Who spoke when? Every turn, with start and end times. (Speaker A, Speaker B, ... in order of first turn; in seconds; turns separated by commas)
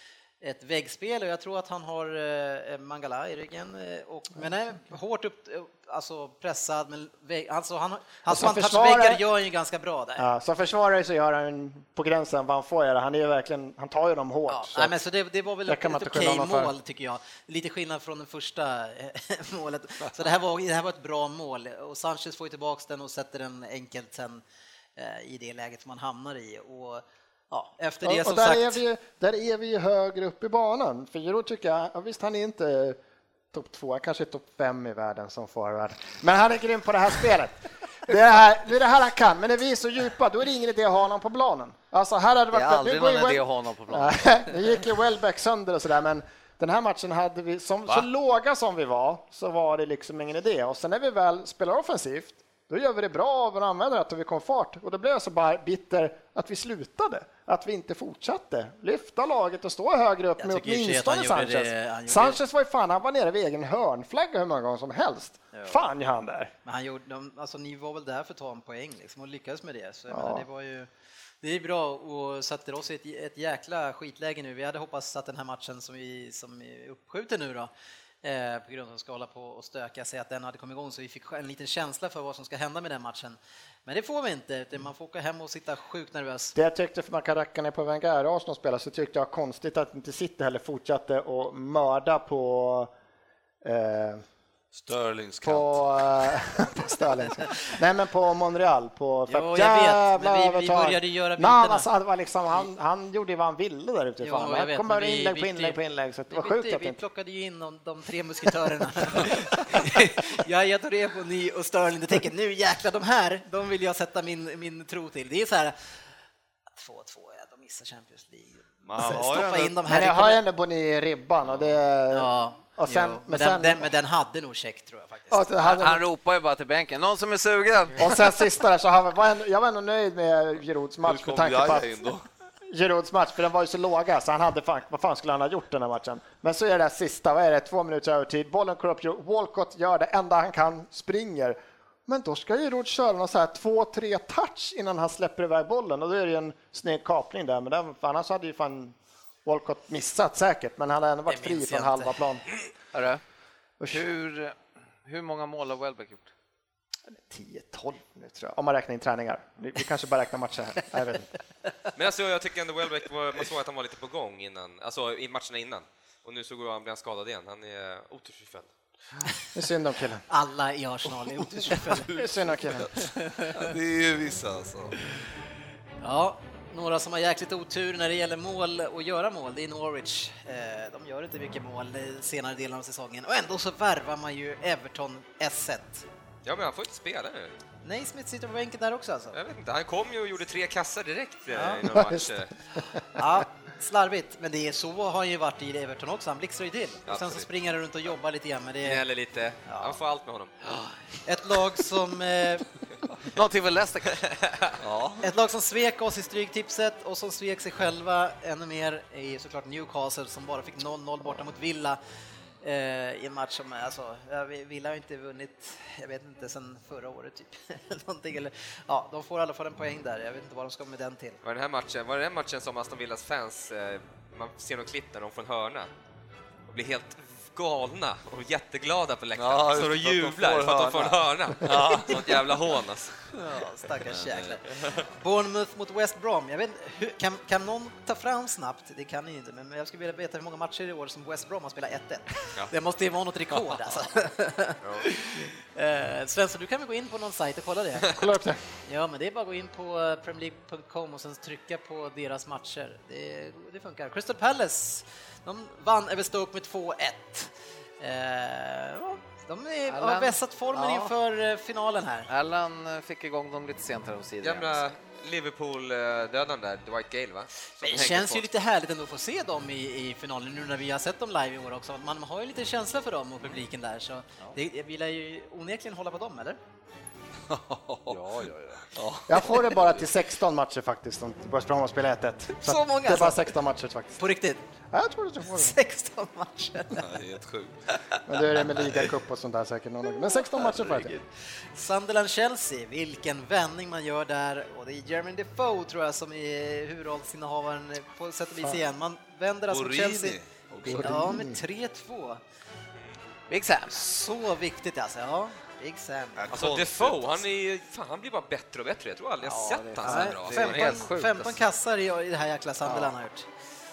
Speaker A: 0.4-10.3, Speaker B: 8.2-9.2, Speaker B: 10.2-14.9, Speaker A: 14.5-24.4, Speaker B: 15.7-16.7, Speaker A: 24.9-28.8, Speaker B: 28.0-33.0, Speaker B: 33.5-66.5, Speaker C: 42.5-44.6, Speaker A: 60.4-62.4, Speaker A: 65.5-65.8, Speaker A: 66.6-70.9, Speaker B: 70.1-70.4, Speaker A: 71.4-77.7, Speaker A: 78.2-86.5, Speaker B: 86.5-92.9, Speaker B: 93.6-94.2, Speaker D: 94.7-96.4, Speaker B: 95.4-107.0, Speaker A: 99.3-101.9, Speaker A: 104.2-115.7, Speaker B: 109.2-109.8, Speaker A: 116.7-120.4, Speaker D: 118.8-119.8, Speaker B: 119.8-123.9, Speaker A: 122.1-125.7, Speaker B: 125.3-126.0, Speaker C: 125.6-128.2, Speaker B: 128.0-131.9, Speaker D: 131.0-132.2, Speaker B: 132.7-152.4, Speaker A: 151.3-152.2, Speaker C: 152.9-153.2, Speaker B: 153.8-154.1, Speaker C: 153.9-156.3, Speaker B: 157.1-161.3, Speaker E: 161.9-168.7, Speaker B: 169.5-170.2, Speaker A: 170.3-172.1, Speaker D: 171.6-175.0, Speaker B: 172.1-172.9, Speaker A: 173.2-173.7, Speaker A: 176.0-186.0, Speaker E: 186.4-187.5, Speaker A: 187.8-189.4, Speaker E: 189.3-192.5, Speaker A: 191.5-191.9, Speaker B: 191.9-193.2, Speaker A: 193.1-199.0, Speaker E: 197.1-197.5, Speaker E: 198.8-200.5, Speaker A: 199.7-200.0, Speaker A: 201.2-202.7, Speaker C: 203.2-204.3, Speaker E: 204.2-204.7, Speaker D: 204.8-205.3, Speaker A: 205.2-212.0, Speaker A: 212.6-221.4, Speaker E: 221.4-225.9, Speaker E: 226.7-233.2, Speaker D: 229.3-232.4, Speaker A: 233.3-248.2, Speaker D: 234.0-234.6, Speaker E: 234.7-235.1, Speaker E: 244.8-245.1, Speaker B: 248.1-248.6, Speaker A: 248.8-262.3, Speaker C: 259.9-261.1, Speaker C: 262.3-264.9, Speaker E: 264.4-268.5, Speaker A: 267.8-276.6, Speaker D: 277.5-279.9, Speaker C: 278.1-278.9, Speaker B: 279.3-284.2, Speaker A: 282.6-283.5, Speaker A: 284.2-284.6, Speaker B: 284.9-285.8, Speaker A: 285.5-287.1, Speaker D: 286.9-288.2, Speaker B: 288.3-291.1, Speaker A: 290.8-302.4, Speaker D: 299.7-301.3, Speaker B: 300.8-301.6, Speaker C: 303.5-304.0, Speaker A: 303.9-306.5, Speaker D: 306.4-307.4, Speaker E: 306.5-311.1, Speaker C: 309.4-311.6, Speaker A: 310.0-313.5, Speaker C: 312.8-313.1